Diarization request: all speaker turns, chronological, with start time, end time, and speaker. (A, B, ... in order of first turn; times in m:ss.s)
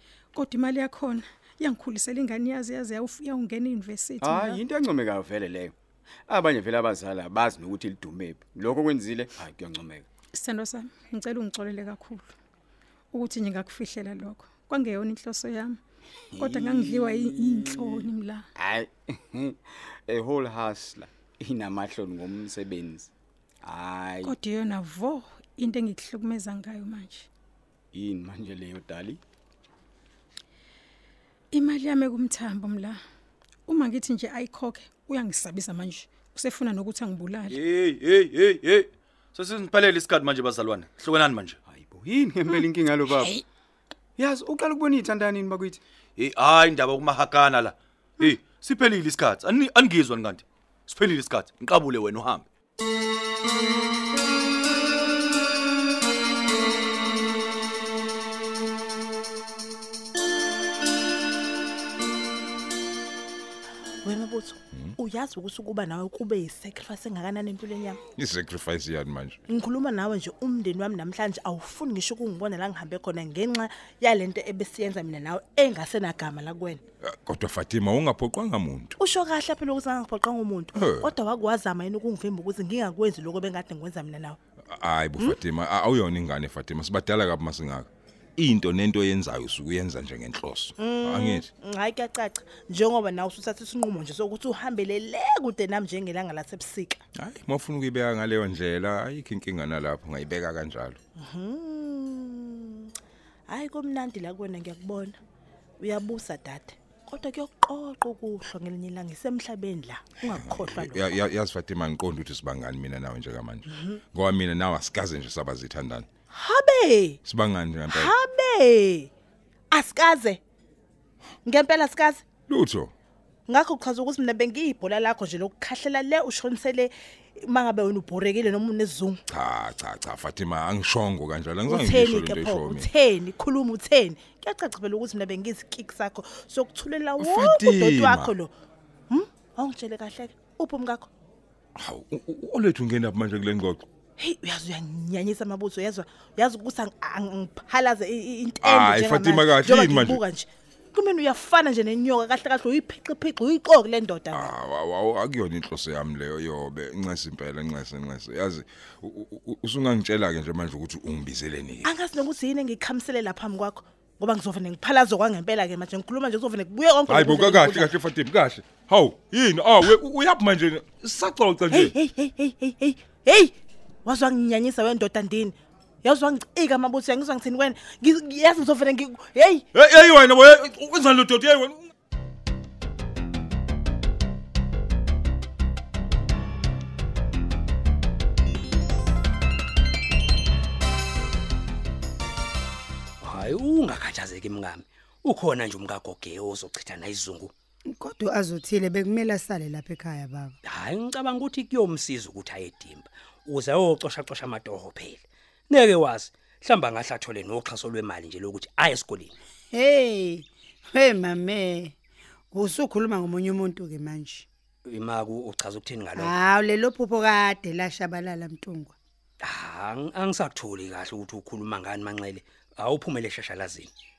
0:00.3-0:04.6 A
0:04.2-0:05.7 B
0:06.3-0:10.1 B
0:10.3-0:12.3 A
0:13.1-0:15.8 A
0:16.4-0:18.4 A
0:16.4-0:19.6 B
0:20.1-0:23.1 B
0:23.6-0:24.4 B
0:24.2-0:27.3 A
0:27.9-0:29.2 B
0:31.5-0:33.0 A
0:33.7-0:37.6 A
0:37.5-0:41.6 C
0:41.7-0:43.3 B
0:43.2-0:43.4 A
0:44.2-0:45.8 B
0:46.2-0:52.5 C
1:04.0-1:08.0 D
1:08.2-1:09.4 E
1:09.5-1:16.8 D
1:17.0-1:19.0 E
1:19.0-1:24.4 D
1:20.8-1:21.1 E
1:24.7-1:31.5 E
1:30.8-1:37.0 D
1:37.2-1:41.0 E
1:41.2-1:42.9 D
1:43.5-1:45.2 D
1:45.8-1:51.1 D
1:50.4-1:56.1 E
1:53.7-1:54.0 D
1:56.3-1:57.2 D
1:57.2-1:58.1 E
1:57.9-1:59.1 D
1:59.7-2:00.4 D
2:01.5-2:02.2 D
2:02.5-2:02.9 E
2:03.5-2:09.2 D
2:09.3-2:12.9 E
2:11.7-2:18.5 D
2:17.2-2:18.3 E
2:19.1-2:21.1 D
2:21.8-2:23.8 E
2:24.2-2:34.5 D
2:28.6-2:30.2 E
2:34.3-2:41.9 E
2:41.8-2:47.9 D
2:47.1-2:51.9 E
2:51.7-2:53.5 D
2:54.0-2:59.6 D
2:59.7-3:01.8 E
3:13.2-3:17.5 F
3:17.9-3:20.6 G
3:20.6-3:29.3 F
3:29.7-3:32.0 G
3:32.5-3:34.5 G
3:34.9-3:36.3 F
3:36.2-3:38.9 G
3:39.4-3:43.9 F